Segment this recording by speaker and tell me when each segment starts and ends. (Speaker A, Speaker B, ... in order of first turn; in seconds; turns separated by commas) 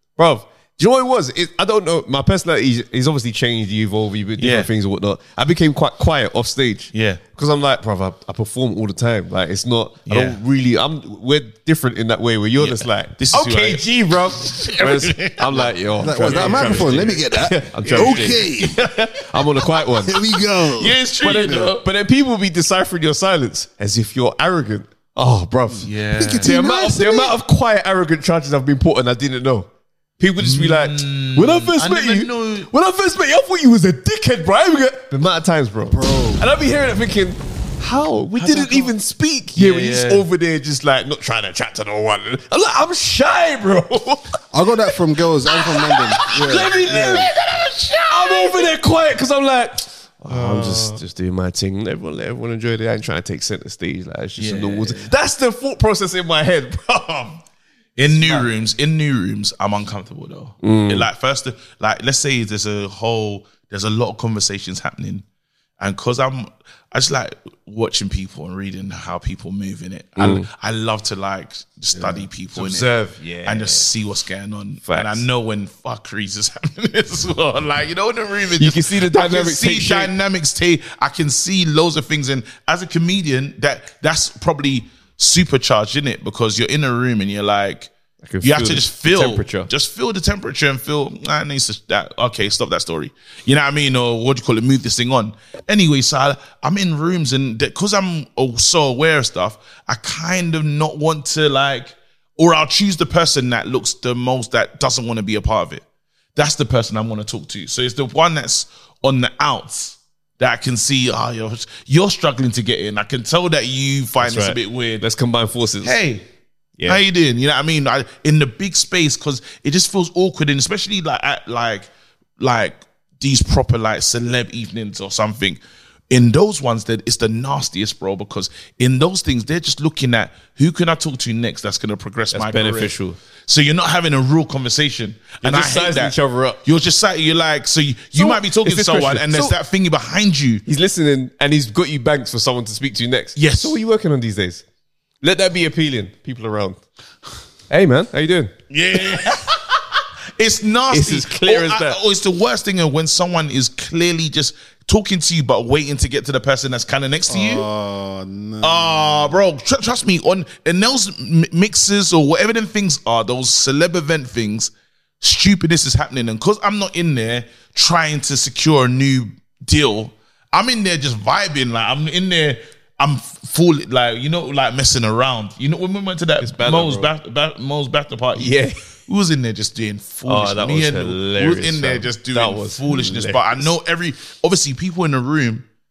Speaker A: 0.2-20.2, Speaker B: 4.4-4.7, Speaker B: 6.9-7.2, Speaker B: 10.1-10.4, Speaker B: 12.6-17.2, Speaker C: 16.0-18.9, Speaker B: 17.9-18.5, Speaker C: 19.8-21.7, Speaker B: 20.8-21.8, Speaker A: 21.2-25.9, Speaker B: 25.8-26.5, Speaker C: 26.2-27.3, Speaker A: 26.4-29.7, Speaker A: 30.2-44.4, Speaker B: 30.4-32.7, Speaker C: 35.9-36.4, Speaker B: 38.4-38.9, Speaker B: 39.5-40.3, Speaker C: 44.5-47.3, Speaker A: 45.8-47.3, Speaker B: 46.3-48.7, Speaker A: 48.1-57.4, Speaker B: 50.3-51.0, Speaker B: 54.4-55.1, Speaker B: 58.0-65.2, Speaker A: 58.2-58.5, Speaker A: 60.6-61.1, Speaker B: 65.8-72.9, Speaker A: 70.2-70.5, Speaker A: 71.9-73.9, Speaker B: 73.4-87.9, Speaker A: 74.9-75.3, Speaker A: 78.6-80.1, Speaker A: 88.2-89.7, Speaker B: 88.4-105.8, Speaker B: 106.4-115.0, Speaker A: 114.2-116.0, Speaker B: 115.8-116.3, Speaker B: 116.9-132.9, Speaker A: 132.3-133.2, Speaker B: 133.5-140.6, Speaker A: 135.4-136.6, Speaker A: 138.2-139.6, Speaker A: 140.7-144.6, Speaker B: 143.4-143.8, Speaker A: 145.2-146.8, Speaker A: 147.7-148.5, Speaker B: 148.7-149.8, Speaker B: 150.4-157.7, Speaker A: 150.9-152.0, Speaker C: 157.3-159.4, Speaker B: 158.6-178.6, Speaker A: 176.4-177.1, Speaker A: 178.4-178.8, Speaker B: 179.1-185.7, Speaker A: 180.3-183.7